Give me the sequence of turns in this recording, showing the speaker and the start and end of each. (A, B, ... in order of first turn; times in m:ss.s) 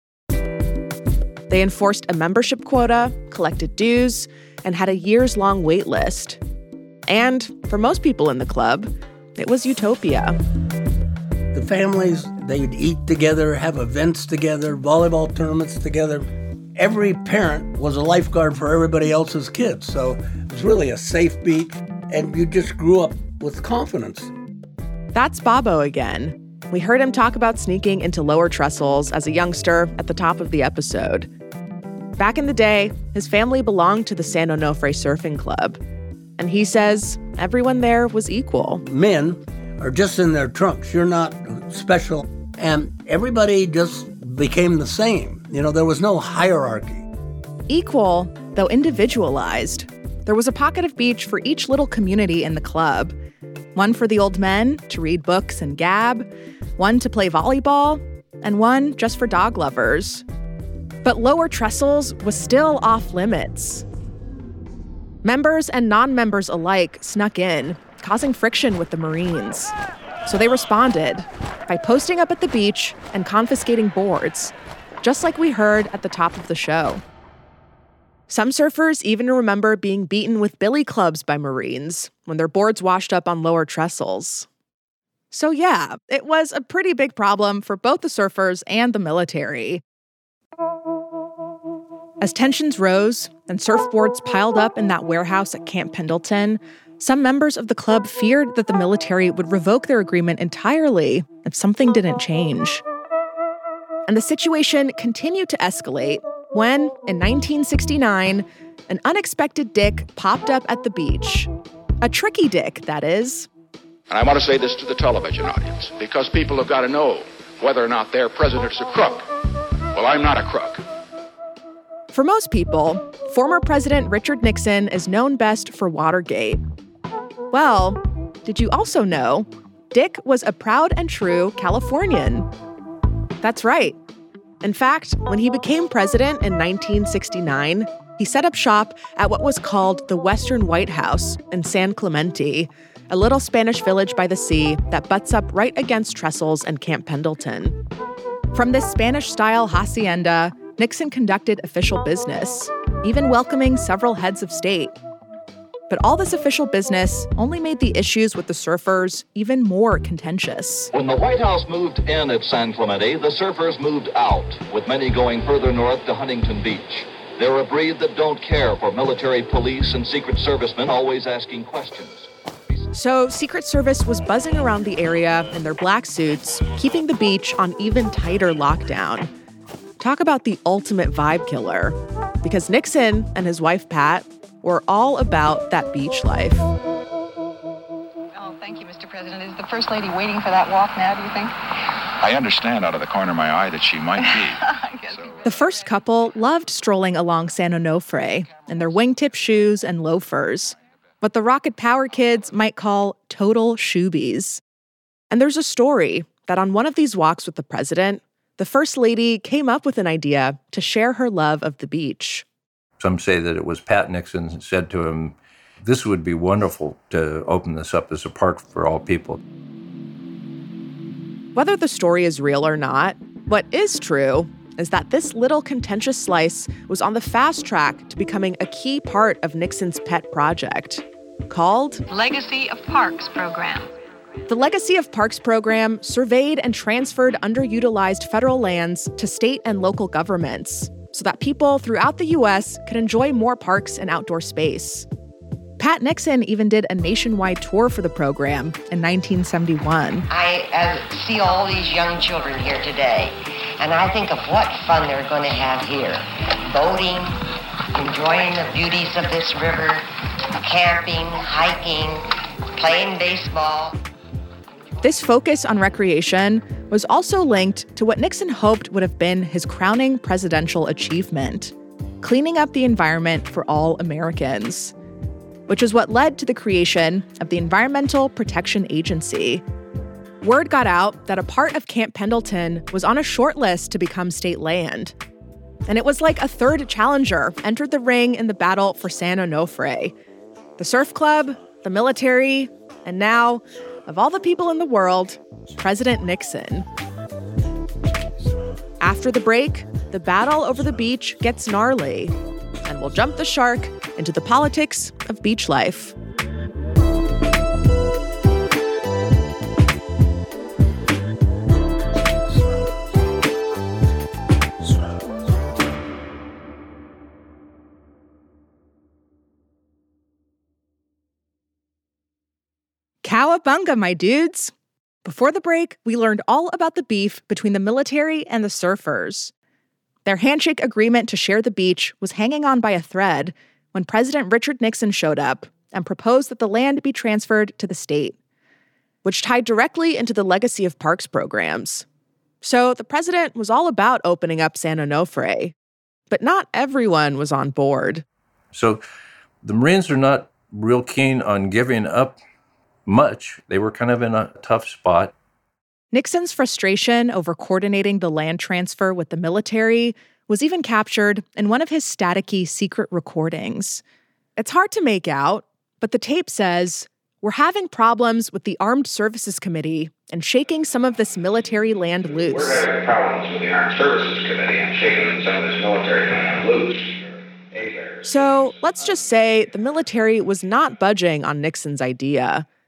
0:01.5-0:06.4 A
0:07.1-0:10.4 A
0:11.5-0:24.3 B
0:25.1-0:31.3 A
0:32.2-0:35.8 A
0:36.4-0:38.8 A
0:38.8-0:47.1 B
0:47.7-0:53.2 A
0:53.8-1:00.2 A
1:01.0-1:03.8 A
1:05.2-1:09.7 A
1:10.2-1:17.0 A
1:18.3-1:24.5 A
1:25.3-1:29.8 A
1:32.2-1:42.8 A
1:44.1-1:51.5 A
1:52.0-1:53.5 A
1:54.1-1:59.3 C
1:59.9-2:00.8 C
2:02.1-2:06.6 A
2:07.5-2:12.5 A
2:13.4-2:14.0 A
2:14.6-2:27.8 A
2:28.5-2:35.0 A
2:35.9-2:40.9 A
2:40.9-2:52.3 D
2:52.9-2:59.3 A
3:00.0-3:06.7 A
3:08.4-3:11.5 E
3:12.2-3:14.6 C
3:14.2-3:15.4 E
3:15.4-3:24.6 A
3:25.3-3:32.5 A
3:33.0-3:39.4 F
3:41.5-3:52.0 A
3:52.1-3:53.9 E
3:54.5-4:05.0 A
4:05.8-4:10.3 A
4:10.3-4:17.4 G
4:17.9-4:24.0 G
4:25.0-4:34.9 A
4:35.7-4:39.6 A
4:40.4-4:45.1 A
4:45.9-4:50.1 A
4:50.8-4:56.9 A
4:59.0-5:02.3 A
5:02.9-5:06.1 A
5:23.2-5:24.7 A
5:25.2-5:29.5 A
5:30.2-5:38.4 A
5:39.2-5:42.0 A
5:42.6-5:45.7 A
5:46.3-5:48.2 A
5:48.7-5:49.0 F
5:49.6-5:52.4 F
5:53.0-5:55.3 F
5:56.1-6:04.0 A
6:04.6-6:12.8 A
6:12.7-6:18.2 H
6:18.2-6:22.6 A